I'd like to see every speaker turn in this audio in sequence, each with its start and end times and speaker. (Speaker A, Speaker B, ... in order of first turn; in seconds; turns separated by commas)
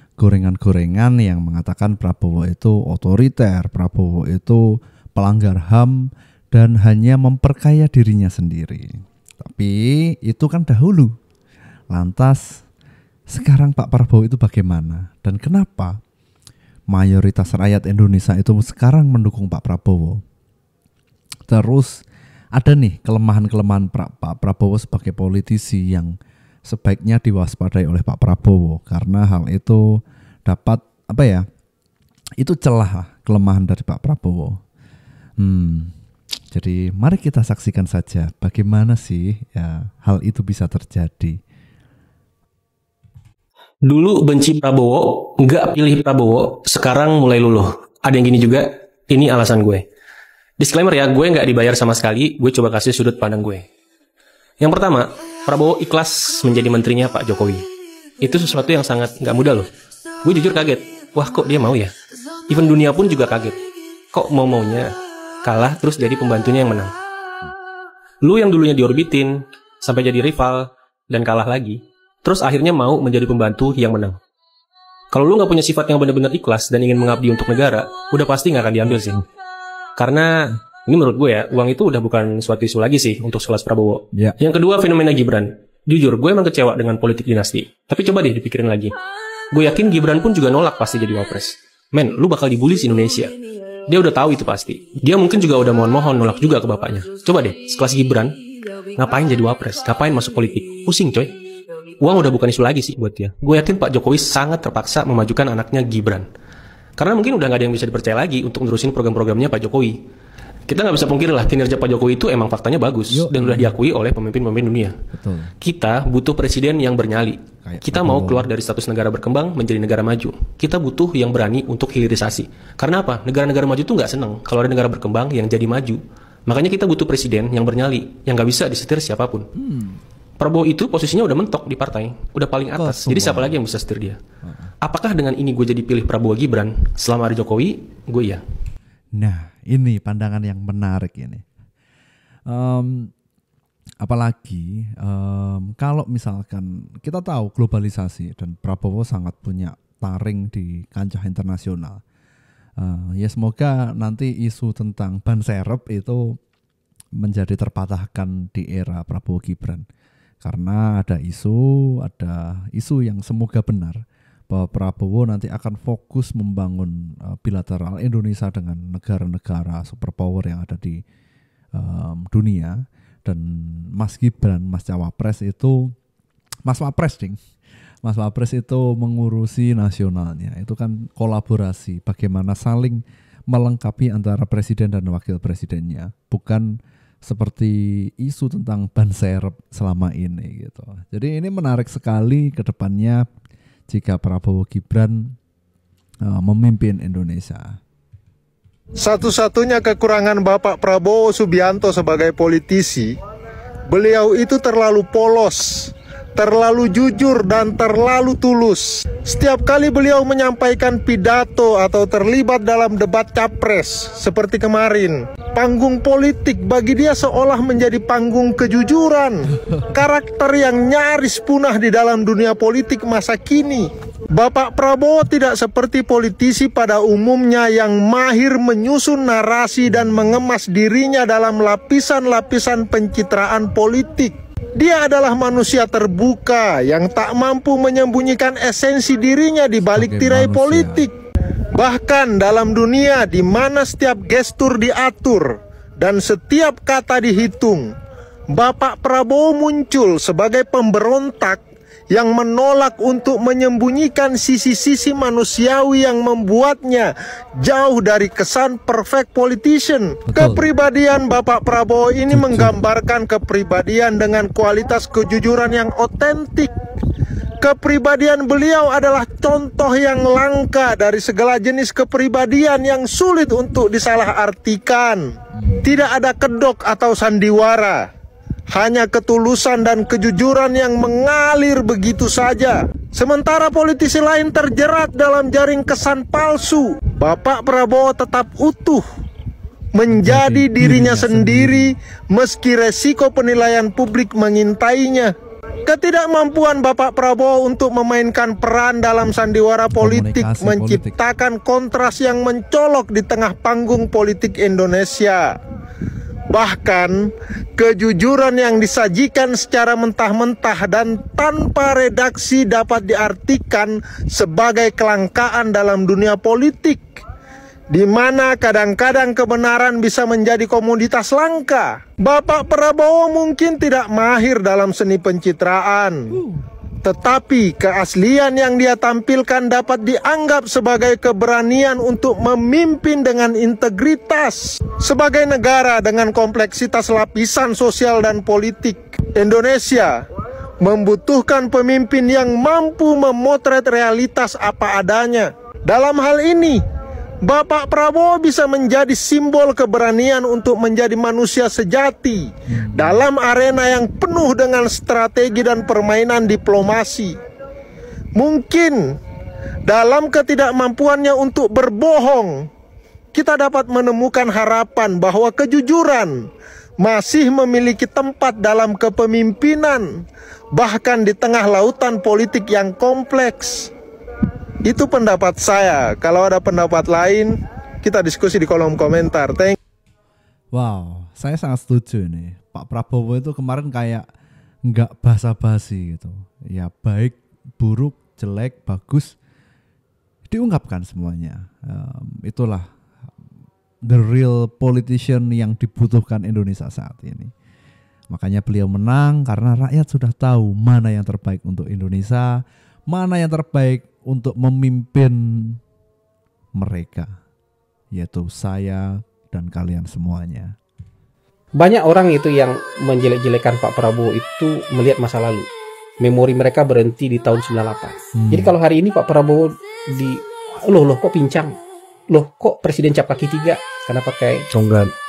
Speaker A: 0.2-4.6, Speaker A: 5.2-11.1, Speaker A: 11.9-12.6, Speaker A: 13.3-16.0, Speaker A: 16.9-20.2, Speaker A: 21.5-22.0, Speaker A: 22.6-26.1, Speaker A: 26.7-31.4, Speaker A: 32.4-34.6, Speaker A: 35.4-35.9, Speaker A: 36.5-41.4, Speaker B: 43.9-49.8, Speaker B: 50.6-53.6, Speaker B: 54.6-57.6, Speaker B: 58.2-59.7, Speaker B: 60.2-61.9, Speaker B: 62.5-63.6, Speaker B: 64.1-64.9, Speaker B: 65.4-66.9, Speaker B: 68.2-74.2, Speaker B: 75.1-79.2, Speaker B: 80.0-80.3, Speaker B: 80.8-88.9, Speaker B: 89.5-93.3, Speaker B: 93.9-98.4, Speaker B: 98.9-101.3, Speaker B: 102.0-106.3, Speaker B: 107.0-110.0, Speaker B: 110.7-115.0, Speaker A: 113.1-113.8, Speaker A: 115.1-115.5, Speaker B: 115.6-129.4, Speaker A: 117.6-118.5, Speaker A: 129.6-130.0, Speaker B: 130.4-134.2, Speaker A: 132.7-133.6, Speaker A: 134.4-134.7, Speaker B: 134.8-138.4, Speaker A: 139.2-141.4, Speaker A: 142.5-143.1, Speaker A: 144.0-152.0, Speaker A: 152.8-156.4, Speaker A: 157.2-159.8, Speaker A: 160.4-171.0, Speaker A: 171.7-175.9, Speaker A: 176.7-177.4, Speaker A: 178.0-193.2, Speaker A: 193.9-195.3, Speaker A: 196.2-197.8, Speaker C: 199.0-203.1, Speaker C: 203.9-241.1, Speaker A: 229.9-230.4, Speaker A: 239.9-241.1, Speaker C: 241.8-247.8, Speaker C: 248.5-251.6, Speaker C: 252.1-257.1, Speaker C: 257.6-266.7, Speaker A: 260.2-260.6, Speaker A: 262.3-262.7, Speaker C: 267.6-275.2, Speaker A: 275.6-275.9, Speaker C: 275.8-278.0, Speaker C: 278.7-289.0, Speaker C: 289.9-295.3, Speaker A: 290.1-291.9, Speaker C: 295.9-305.5, Speaker A: 300.0-301.1, Speaker C: 306.5-317.0, Speaker C: 317.9-326.4, Speaker A: 326.3-326.6, Speaker C: 327.0-340.1, Speaker C: 340.8-346.8, Speaker C: 347.4-357.3, Speaker A: 352.7-353.2, Speaker C: 358.4-359.0, Speaker C: 359.9-362.5, Speaker C: 363.3-366.3, Speaker C: 367.0-370.1, Speaker C: 370.7-373.9, Speaker C: 374.9-377.5, Speaker C: 378.0-379.8, Speaker A: 380.7-384.3, Speaker A: 384.9-389.3, Speaker A: 390.5-392.9, Speaker A: 394.1-397.5, Speaker A: 398.3-402.5, Speaker A: 403.1-405.8, Speaker A: 406.8-407.3, Speaker A: 408.1-410.8, Speaker D: 411.8-415.7, Speaker D: 416.2-421.8, Speaker A: 418.4-418.7, Speaker D: 422.3-424.7